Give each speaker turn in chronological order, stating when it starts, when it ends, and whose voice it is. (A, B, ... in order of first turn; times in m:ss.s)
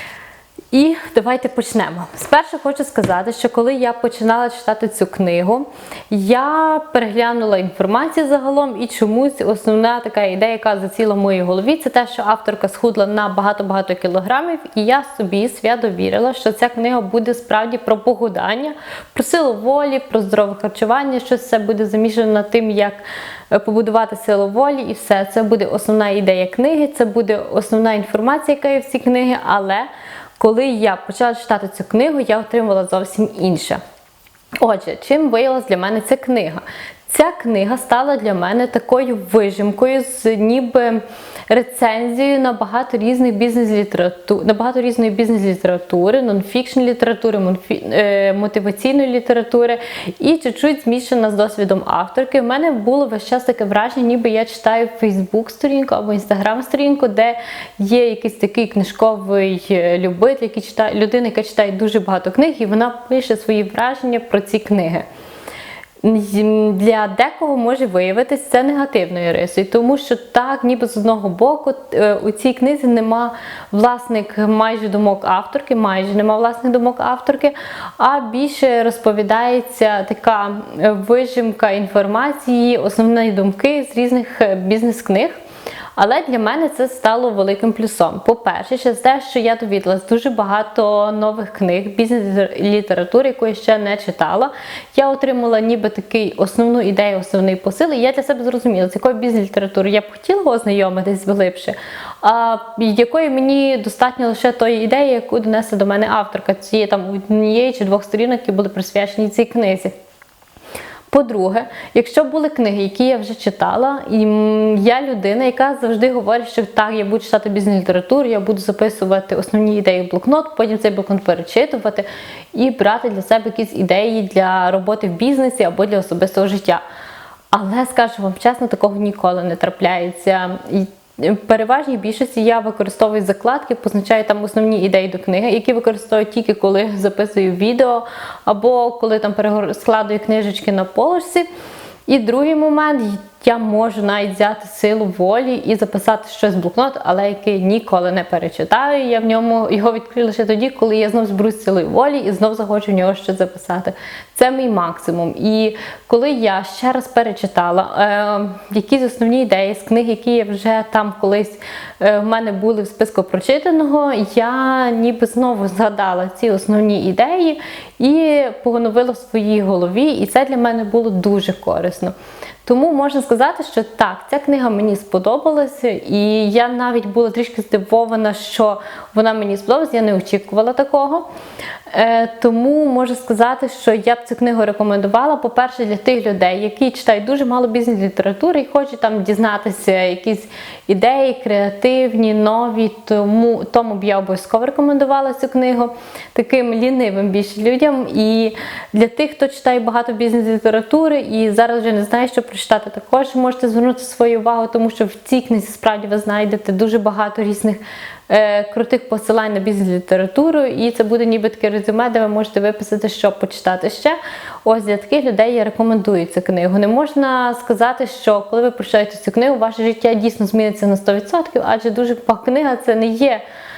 0:00.7-0:33.8 A
0:34.6-1:05.0 A
1:06.0-1:25.4 A
1:26.0-1:49.9 A
1:51.1-2:06.8 A
2:07.5-2:21.5 A
2:22.1-2:52.1 A
2:52.6-3:01.3 A
3:01.9-3:43.4 A